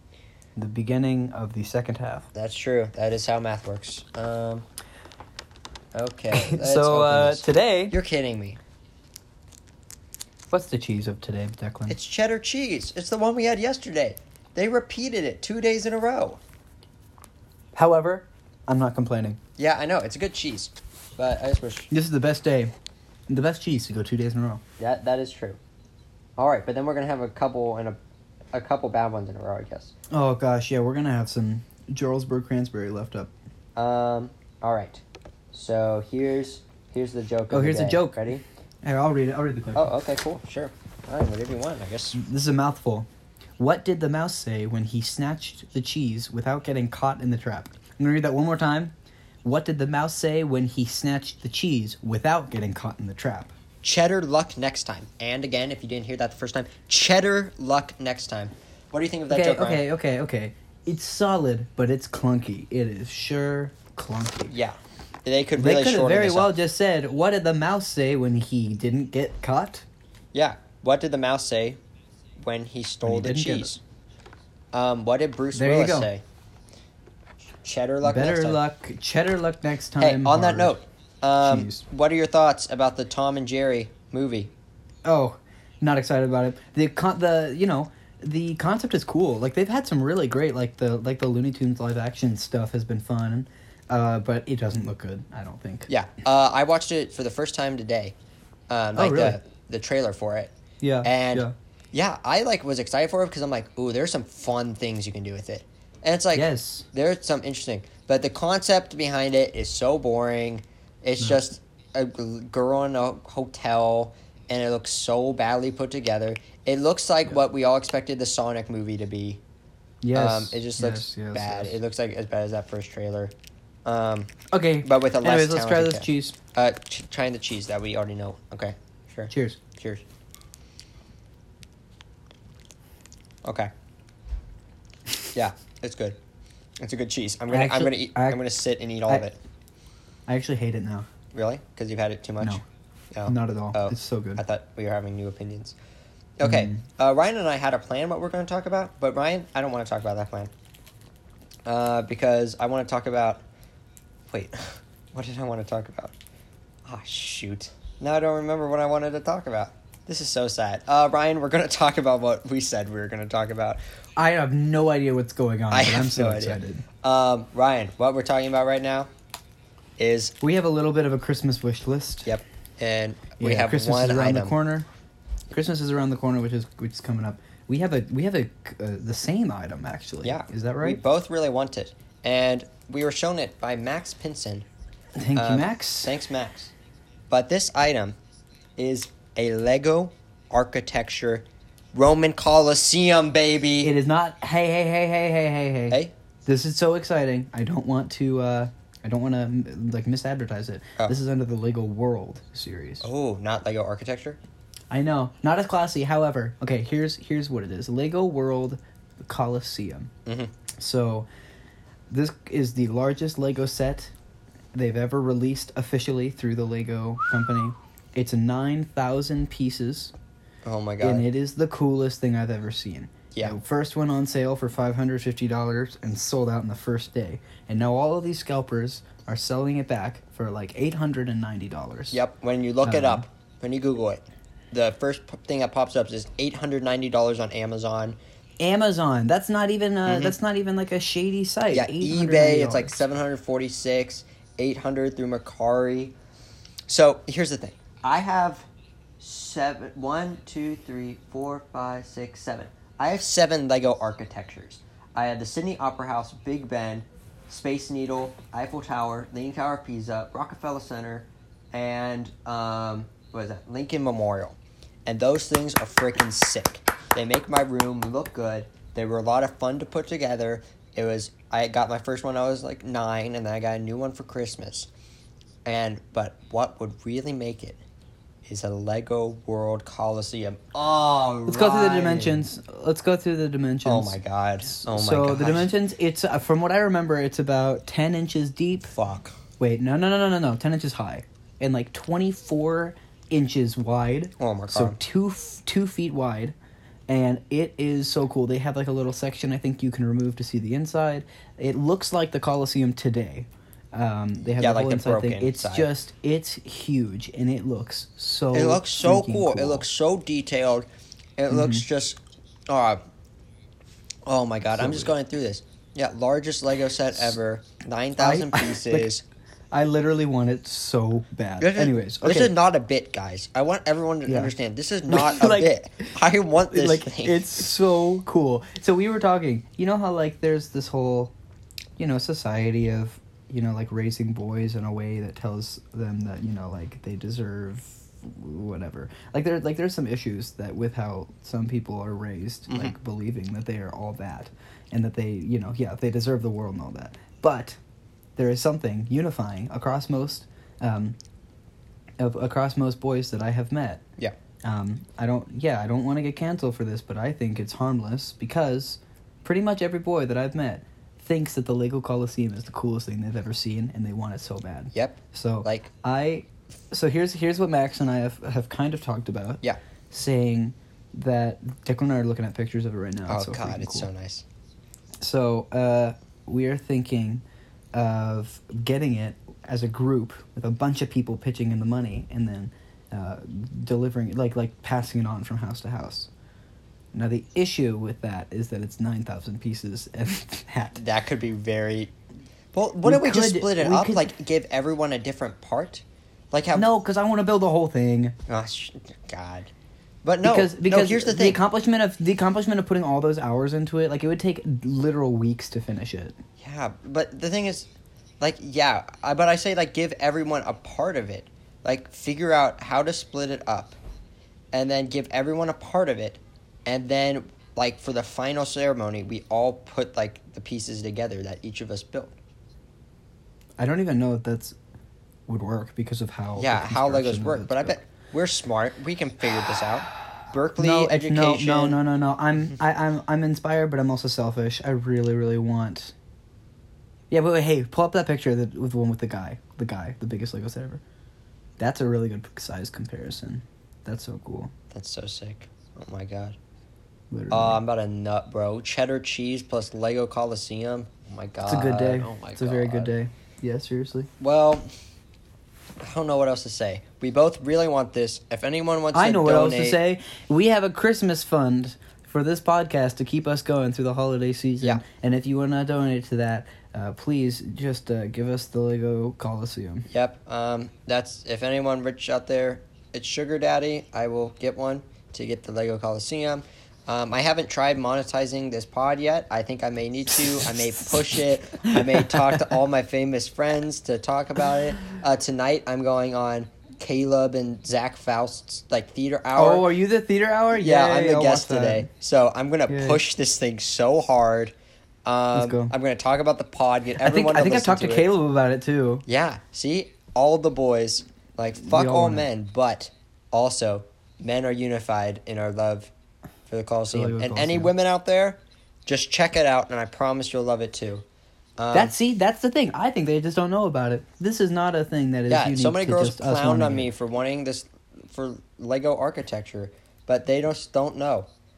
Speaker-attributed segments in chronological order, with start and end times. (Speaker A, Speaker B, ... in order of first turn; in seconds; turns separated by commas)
Speaker A: 0.6-2.3, Speaker B: 2.3-4.7, Speaker B: 5.9-8.6, Speaker A: 6.3-7.9, Speaker A: 10.5-12.0, Speaker B: 11.9-16.4, Speaker A: 17.7-19.4, Speaker B: 19.6-21.9, Speaker A: 21.9-22.7, Speaker A: 23.3-24.6, Speaker B: 24.8-25.6, Speaker B: 26.4-28.0, Speaker B: 28.5-29.9, Speaker A: 30.1-33.3, Speaker B: 33.8-38.4, Speaker A: 37.5-39.9, Speaker B: 39.8-42.2, Speaker A: 42.1-43.1, Speaker A: 43.6-48.9, Speaker A: 49.4-53.5, Speaker B: 53.8-59.8, Speaker A: 59.3-64.5, Speaker B: 64.5-66.6, Speaker A: 65.6-69.8, Speaker B: 70.3-71.8, Speaker B: 72.4-73.8, Speaker A: 73.0-73.8, Speaker B: 74.7-76.2, Speaker A: 75.5-76.1, Speaker B: 77.6-78.6, Speaker A: 78.0-80.8, Speaker B: 80.0-84.5, Speaker A: 81.4-81.8, Speaker A: 85.0-95.9, Speaker B: 95.9-98.2, Speaker B: 98.7-100.5, Speaker A: 99.0-99.4, Speaker A: 100.8-101.5, Speaker B: 101.0-119.4, Speaker A: 106.3-106.9, Speaker A: 120.0-121.8, Speaker B: 120.1-123.3, Speaker B: 123.9-124.3, Speaker A: 124.5-126.4, Speaker B: 124.8-130.0, Speaker A: 129.3-129.6, Speaker B: 133.4-133.7, Speaker B: 135.3-136.2, Speaker B: 136.8-139.4, Speaker A: 137.5-138.4, Speaker A: 140.3-141.1, Speaker B: 141.3-142.6, Speaker B: 143.1-145.8, Speaker A: 143.3-144.4, Speaker B: 146.4-150.5, Speaker A: 146.4-146.8, Speaker B: 151.7-153.4, Speaker B: 154.3-156.2, Speaker B: 156.9-163.8, Speaker A: 164.2-166.8, Speaker B: 165.7-169.1, Speaker B: 170.0-170.3, Speaker A: 170.4-172.3, Speaker B: 172.2-174.6, Speaker A: 173.4-174.9, Speaker A: 175.5-181.0, Speaker B: 180.2-184.7, Speaker A: 185.2-186.1, Speaker B: 185.3-186.7, Speaker B: 187.3-188.2, Speaker B: 188.8-193.9, Speaker A: 193.8-203.0, Speaker B: 203.0-204.4, Speaker A: 204.9-210.1, Speaker B: 210.3-210.5, Speaker A: 210.8-211.3, Speaker A: 212.1-214.1, Speaker A: 214.7-220.1, Speaker B: 220.7-221.3, Speaker A: 221.0-232.2, Speaker B: 223.3-223.6, Speaker B: 232.1-238.2, Speaker A: 232.8-233.2, Speaker A: 238.6-243.0, Speaker B: 240.1-240.3, Speaker B: 241.7-246.1, Speaker B: 246.9-248.7, Speaker B: 249.2-274.9, Speaker B: 275.7-277.8, Speaker B: 278.5-282.5, Speaker A: 281.5-288.9, Speaker B: 283.9-285.7, Speaker B: 288.9-289.3, Speaker A: 289.6-296.6, Speaker B: 294.4-295.0, Speaker A: 297.1-309.9, Speaker B: 304.4-305.9, Speaker B: 308.5-310.9, Speaker B: 311.4-313.0, Speaker A: 311.5-311.9, Speaker B: 314.3-319.2, Speaker A: 314.7-315.1, Speaker A: 318.2-319.1, Speaker A: 319.7-322.5, Speaker B: 321.6-327.7, Speaker A: 324.3-324.5, Speaker A: 325.1-325.7, Speaker A: 326.7-331.3, Speaker A: 332.0-347.8, Speaker B: 342.7-342.9, Speaker A: 348.4-351.2, Speaker A: 352.2-354.0, Speaker A: 354.6-374.1, Speaker B: 364.9-365.9, Speaker B: 373.3-374.4, Speaker A: 375.2-377.4, Speaker A: 377.9-386.3, Speaker A: 387.1-391.0, Speaker B: 390.9-392.1, Speaker B: 392.7-396.9, Speaker A: 393.0-394.3, Speaker A: 396.7-398.4, Speaker B: 398.5-399.7, Speaker B: 400.2-401.6, Speaker A: 400.4-406.4, Speaker B: 406.6-407.9, Speaker B: 408.4-414.0, Speaker B: 414.7-422.4, Speaker A: 423.8-424.8, Speaker A: 425.5-428.0, Speaker B: 426.6-432.0, Speaker A: 430.8-436.1, Speaker A: 437.3-441.0, Speaker A: 441.8-444.7, Speaker B: 444.9-446.6, Speaker A: 447.3-447.8, Speaker B: 447.5-453.1, Speaker A: 451.6-454.3, Speaker B: 454.4-454.9, Speaker B: 456.0-460.0, Speaker A: 459.1-470.1, Speaker B: 470.1-489.9, Speaker A: 481.9-482.6, Speaker A: 489.6-492.1, Speaker B: 490.7-494.7, Speaker A: 492.9-493.2, Speaker B: 495.2-498.3, Speaker A: 495.5-495.9, Speaker A: 497.2-499.2, Speaker B: 499.3-506.1, Speaker A: 501.8-502.5, Speaker B: 506.7-511.2, Speaker A: 507.1-507.9, Speaker B: 511.8-512.2, Speaker A: 511.9-517.1, Speaker B: 515.5-521.5